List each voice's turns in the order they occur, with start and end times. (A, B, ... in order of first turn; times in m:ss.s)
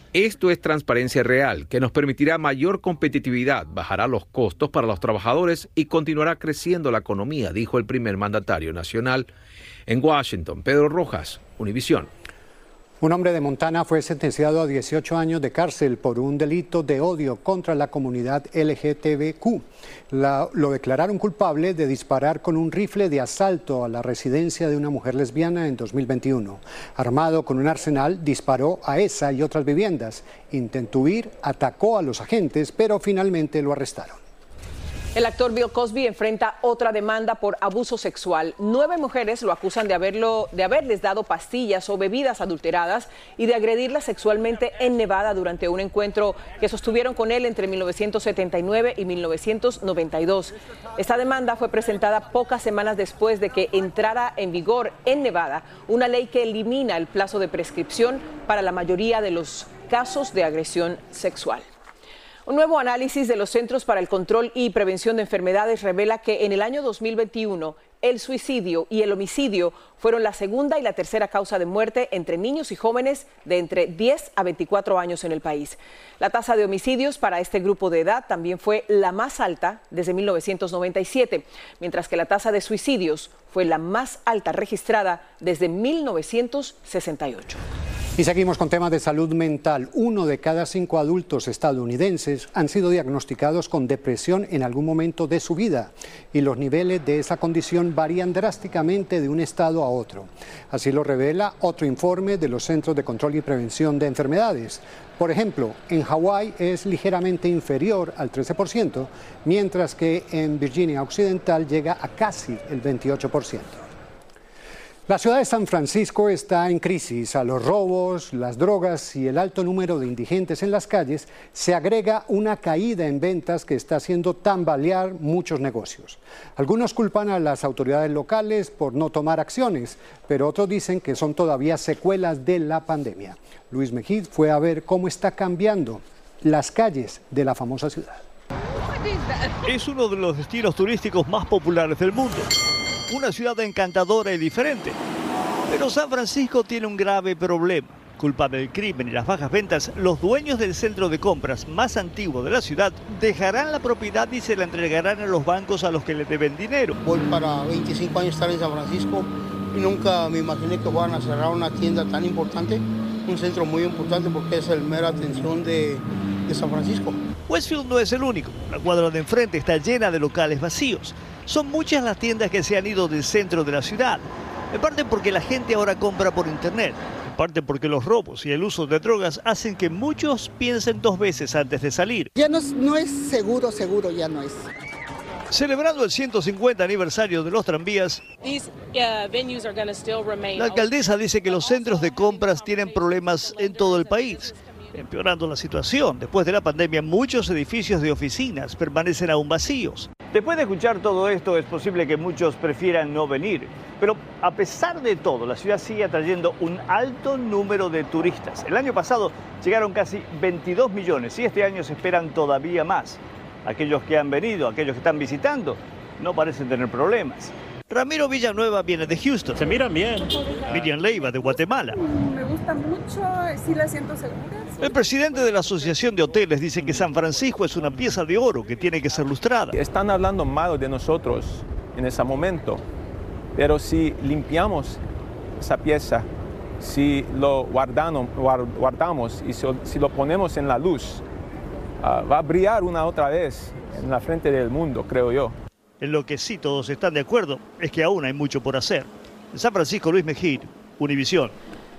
0:00.5-0:01.3 A
0:02.8-0:09.2 A
0:10.0-0:12.1 A
0:13.0-0:34.2 B
0:35.1-1:01.6 C
1:02.5-1:27.6 C
1:28.2-1:53.9 B
1:55.1-2:18.2 B
2:19.6-2:22.5 D
2:23.1-2:25.0 D
2:25.7-2:36.9 D
2:37.0-2:47.2 E
2:47.5-3:02.3 D
3:02.4-3:04.6 F
3:05.5-3:08.2 D
3:10.5-3:42.0 D
3:42.4-3:44.7 G
3:44.8-3:49.8 D
3:49.7-3:52.8 H
3:53.5-3:55.0 H
3:55.6-3:56.3 H
3:56.8-4:01.2 H
4:02.0-4:05.5 H
4:06.0-4:11.5 D